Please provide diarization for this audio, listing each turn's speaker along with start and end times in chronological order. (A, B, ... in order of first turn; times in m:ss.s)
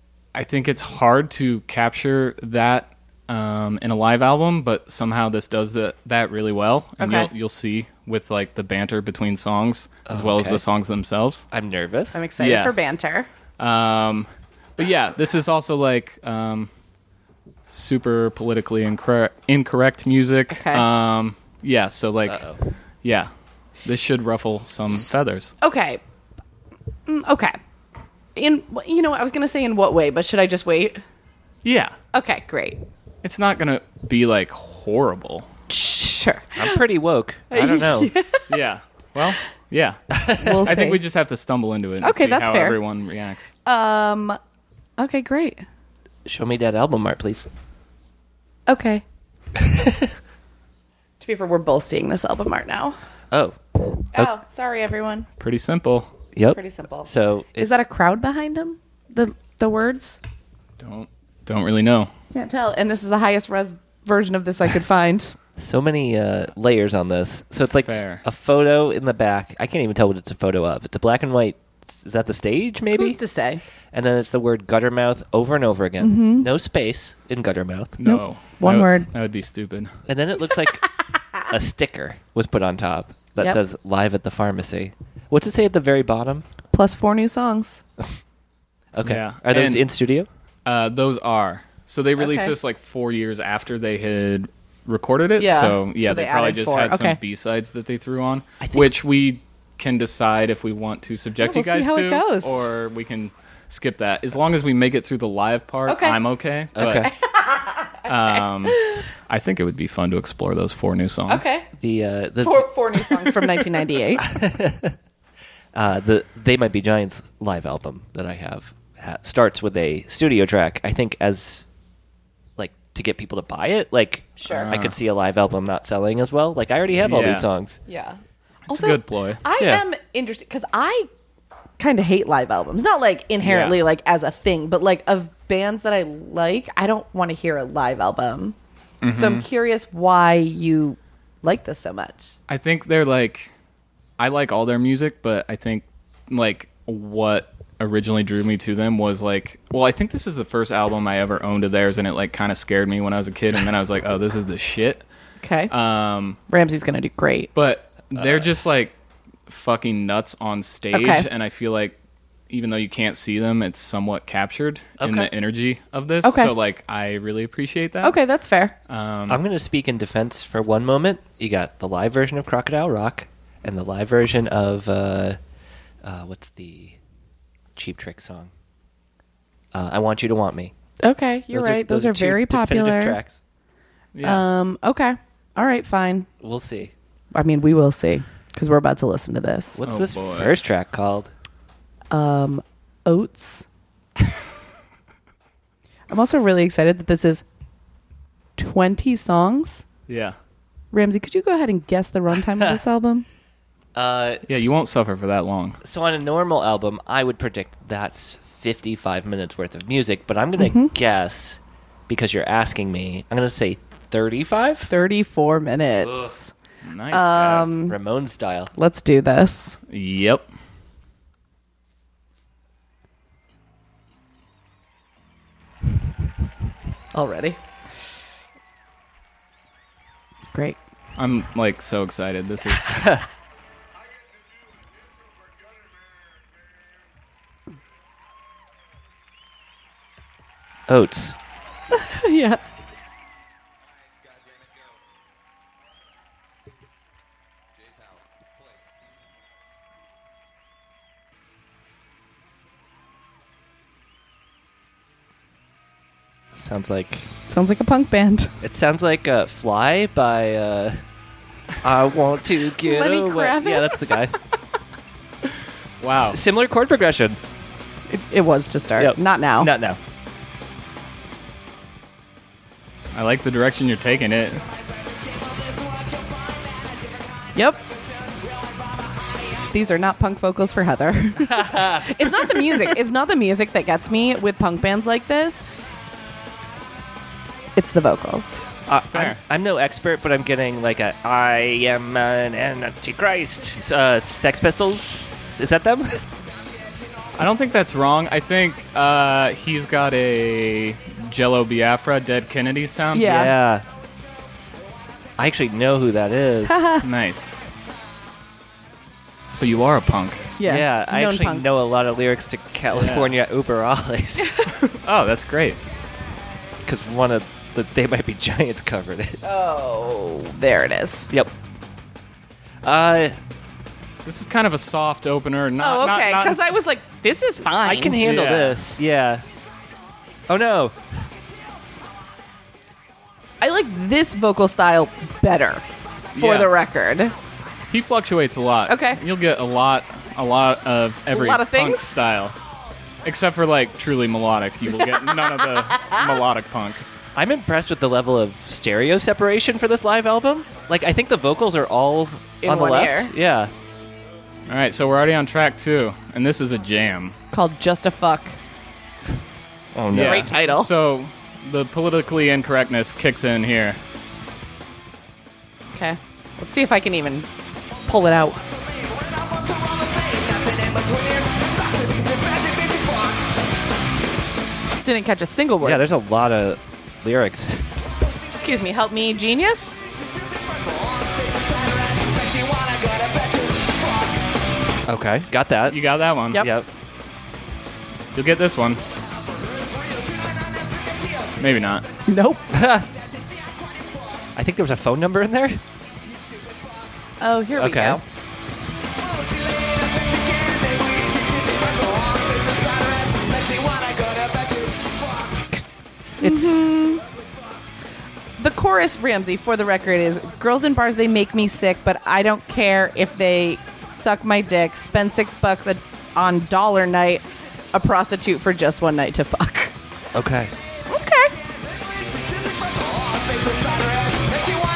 0:00.3-0:11.4 A
0:07.0-0:07.3 B
0:10.1-0:10.6 C
0:11.5-0:12.2 C
0:12.1-0:13.3 B
0:12.4-0:12.7 A
0:13.6-0:16.7 A
0:17.7-0:22.4 A
0:20.5-0:20.8 B
0:22.2-0:22.6 C
0:23.0-0:23.3 A
0:23.8-0:25.5 A
0:25.6-0:26.0 B
0:27.1-0:27.6 B
0:28.4-0:31.0 B
0:31.6-0:31.9 A
0:32.1-0:32.8 B
0:33.2-0:35.5 A
0:35.7-0:36.8 B
0:36.6-0:38.1 C
0:37.5-0:38.6 B
0:38.5-0:43.5 A
0:40.2-0:40.6 C
0:40.4-0:41.0 B
0:42.0-0:42.8 B
0:43.6-0:44.4 B
0:45.0-0:45.6 B
0:46.2-0:47.5 C
0:48.7-0:49.0 B
0:49.6-0:50.1 C
0:51.2-0:53.0 B
0:53.3-0:53.6 C
0:54.1-0:55.3 B
0:55.4-0:56.1 A
0:56.3-0:57.8 C
0:56.5-1:00.2 B
1:00.8-1:02.1 A
1:02.3-1:05.3 B
1:05.6-1:13.2 C
1:07.8-1:08.2 A
1:12.9-1:13.6 B
1:13.9-1:18.0 C
1:16.0-1:16.5 B
1:18.0-1:19.9 A
1:18.0-1:19.1 B
1:20.1-1:20.9 C
1:21.4-1:26.4 C
1:26.7-1:27.8 B
1:28.9-1:30.3 C
1:29.0-1:29.8 A
1:30.6-1:47.1 A
1:32.2-1:32.5 B
1:35.4-1:37.2 B
1:38.6-1:38.9 C
1:41.4-1:42.6 B
1:45.9-1:46.2 B
1:46.7-1:47.1 C
1:46.8-1:49.1 B
1:48.1-1:51.5 A
1:51.3-1:51.6 B
1:51.8-1:52.7 C
1:52.4-1:54.2 B
1:54.2-1:54.9 C
1:55.7-2:01.6 C
2:02.6-2:07.8 C
2:04.4-2:04.7 B
2:04.5-2:05.0 A
2:07.0-2:07.5 A
2:07.9-2:11.1 B
2:08.7-2:09.4 A
2:11.8-2:18.6 B
2:13.4-2:13.7 A
2:19.0-2:19.4 A
2:19.1-2:22.3 B
2:22.5-2:23.5 A
2:24.2-2:35.0 A
2:35.4-2:35.7 B
2:35.7-2:36.4 A
2:36.5-2:37.5 B
2:37.5-2:38.9 A
2:38.1-2:38.5 C
2:39.5-2:41.9 A
2:40.9-2:41.3 B
2:42.5-2:48.2 A
2:45.0-2:45.3 C
2:46.2-2:46.5 B
2:48.0-2:48.7 B
2:48.9-2:49.4 A
2:49.3-2:55.4 C
2:56.0-2:57.0 C
2:57.7-2:58.5 C
2:59.7-3:00.7 C
3:01.0-3:03.2 B
3:01.5-3:03.4 C
3:04.1-3:04.4 A
3:04.2-3:06.3 B
3:06.4-3:06.9 C
3:07.3-3:09.8 B
3:09.7-3:11.3 C
3:09.8-3:10.5 A
3:12.1-3:13.7 B
3:16.1-3:17.4 B
3:18.6-3:19.8 B
3:20.1-3:20.4 A
3:20.9-3:23.2 B
3:23.9-3:24.7 C
3:24.5-3:25.8 A
3:25.8-3:34.9 C
3:30.6-3:30.9 B
3:34.9-3:36.5 B
3:36.0-3:36.3 C
3:36.8-3:37.8 A
3:37.1-3:38.0 B
3:37.9-3:38.7 C
3:38.8-3:39.8 B
3:39.9-3:40.5 A
3:47.1-3:47.6 B
3:51.2-3:53.1 A
3:52.9-3:53.2 C
4:00.9-4:01.4 C
4:01.9-4:02.6 B
4:16.5-4:17.3 C
4:17.5-4:18.5 B
4:18.6-4:21.0 C
4:21.8-4:24.3 C
4:22.8-4:24.3 B
4:26.0-4:26.4 A
4:26.1-4:27.4 C
4:28.1-4:29.7 B
4:29.0-4:30.0 C
4:33.1-4:34.6 A
4:37.6-4:37.8 B
4:39.7-4:45.6 B
4:41.4-4:42.8 C
4:47.8-4:48.6 B
4:48.9-4:56.2 C
4:49.1-4:49.4 A
4:57.4-5:03.4 A
5:03.1-5:03.5 B
5:03.2-5:03.8 C
5:05.4-5:06.9 C
5:06.6-5:07.0 B
5:07.0-5:07.6 A
5:09.5-5:10.5 A
5:10.6-5:11.7 B
5:10.6-5:14.6 C
5:12.9-5:13.3 A
5:14.5-5:14.8 B
5:14.9-5:15.8 A
5:16.8-5:19.4 C
5:19.4-5:21.3 B
5:22.8-5:23.4 C
5:24.2-5:26.6 A
5:25.8-5:28.2 B
5:27.8-5:29.4 C
5:28.2-5:28.8 A
5:30.5-5:31.0 C
5:33.6-5:35.8 B
5:36.3-5:36.7 A
5:36.4-5:37.3 B
5:37.9-5:42.5 A
5:38.9-5:39.2 B
5:41.3-5:42.2 B
5:43.2-5:47.0 A
5:45.0-5:46.2 B
5:47.4-5:53.7 C
5:52.6-5:53.3 B
5:54.7-5:57.3 A
5:57.5-5:58.6 B
5:59.9-6:00.5 C
6:00.1-6:04.0 A
6:00.1-6:00.9 B
6:05.9-6:07.5 B
6:08.1-6:08.6 B
6:15.0-6:16.0 B
6:15.8-6:17.9 C
6:18.5-6:20.0 B
6:25.0-6:26.0 C
6:25.9-6:26.6 A
6:26.5-6:26.9 C
6:28.3-6:29.0 A
6:31.6-6:32.0 A
6:32.3-6:32.6 B
6:32.7-6:33.1 C
6:34.5-6:35.8 C
6:37.4-6:38.2 B
6:37.8-6:38.2 C
6:46.4-6:46.9 C
6:46.4-6:47.2 B
6:48.6-6:59.9 B
7:00.3-7:00.7 C
7:01.1-7:01.5 B